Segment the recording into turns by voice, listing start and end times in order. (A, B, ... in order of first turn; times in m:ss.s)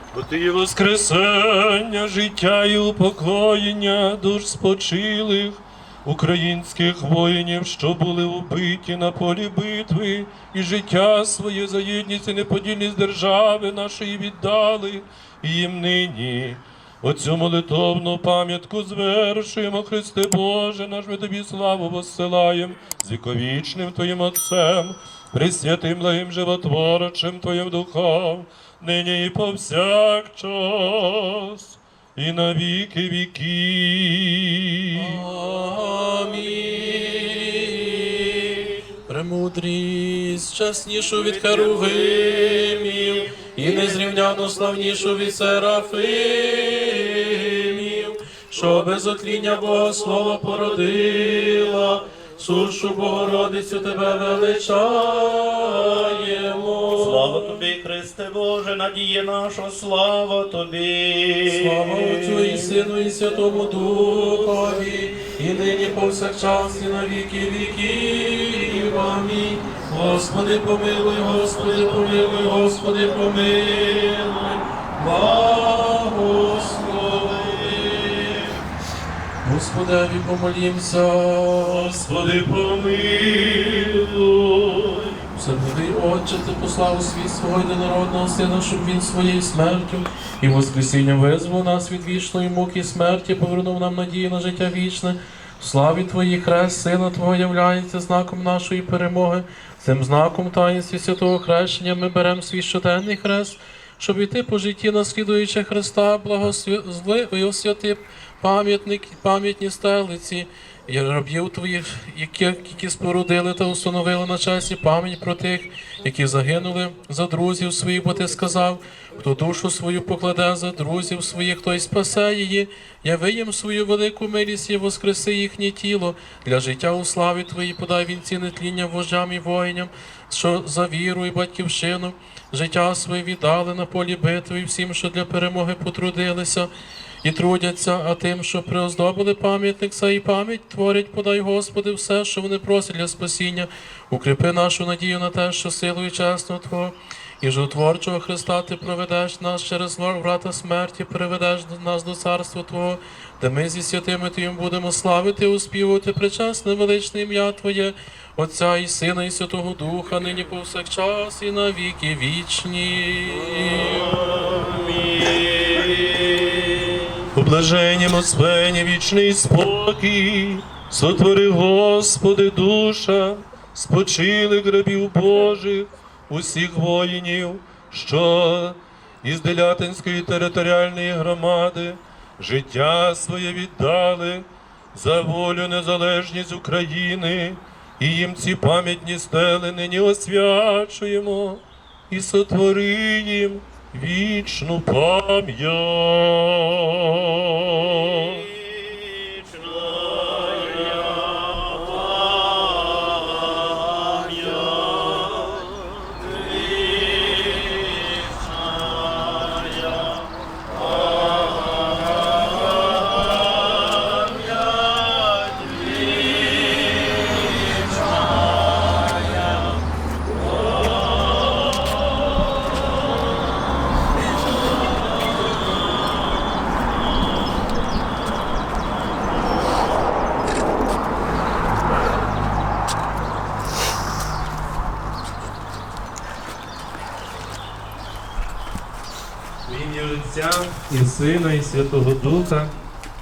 0:00.1-0:35.2 A
0:35.0-0:57.6 B
0:56.9-1:02.5 C
1:01.4-1:18.5 B
1:19.4-1:21.9 B
1:21.8-1:25.1 A
1:25.3-2:16.7 B
2:17.2-2:44.3 B
2:44.6-2:46.0 C
2:47.3-3:18.4 A
3:19.3-3:20.7 C
3:21.7-3:23.0 C
3:24.0-3:27.4 C
3:28.2-3:29.9 C
3:59.7-4:02.7 D